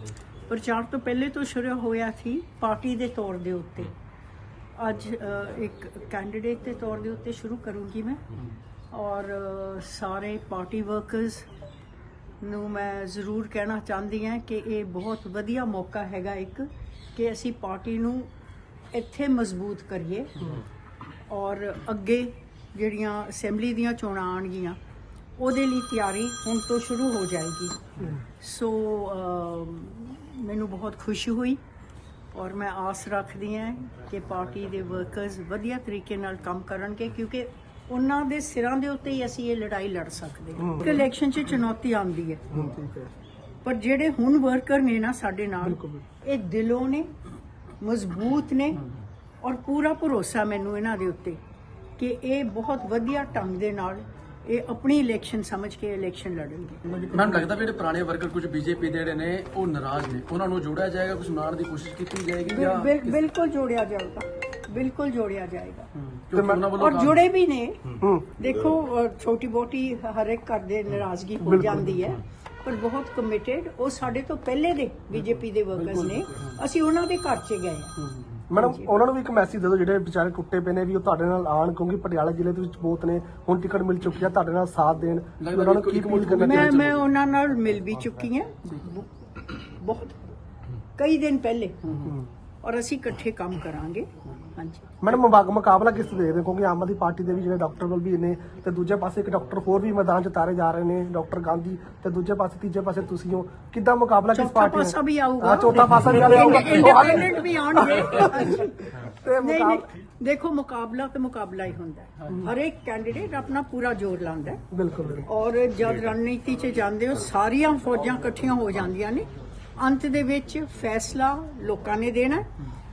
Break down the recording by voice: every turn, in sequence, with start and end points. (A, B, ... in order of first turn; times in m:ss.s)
0:00.5-0:03.9 A
0:04.8-0:08.2 A
0:08.9-0:11.5 A
0:12.4-0:18.3 A
0:18.9-0:20.3 A
0:21.3-0:24.8 A
0:25.4-0:27.8 A
0:28.4-0:31.6 A
0:32.3-0:42.5 A
0:40.6-0:41.0 B
0:42.5-0:43.1 B
0:43.6-0:47.1 A
0:45.6-0:46.0 B
0:47.8-0:48.8 A
0:49.4-0:51.4 A
0:52.0-0:57.1 A
0:57.1-1:03.2 C
1:02.5-1:05.9 A
1:06.0-1:07.3 C
1:06.3-1:06.7 B
1:06.7-1:07.8 A
1:08.0-1:08.3 B
1:08.3-1:18.0 A
1:11.4-1:12.1 B
1:15.7-1:16.6 C
1:18.0-1:18.4 C
1:18.5-1:26.9 B
1:18.5-1:18.9 A
1:25.4-1:27.0 C
1:26.4-1:30.2 A
1:31.0-1:32.1 A
1:31.9-1:32.2 C
1:32.6-1:35.0 A
1:35.0-1:49.8 B
1:44.3-1:54.7 A
1:54.7-1:55.3 B
1:55.2-2:02.5 A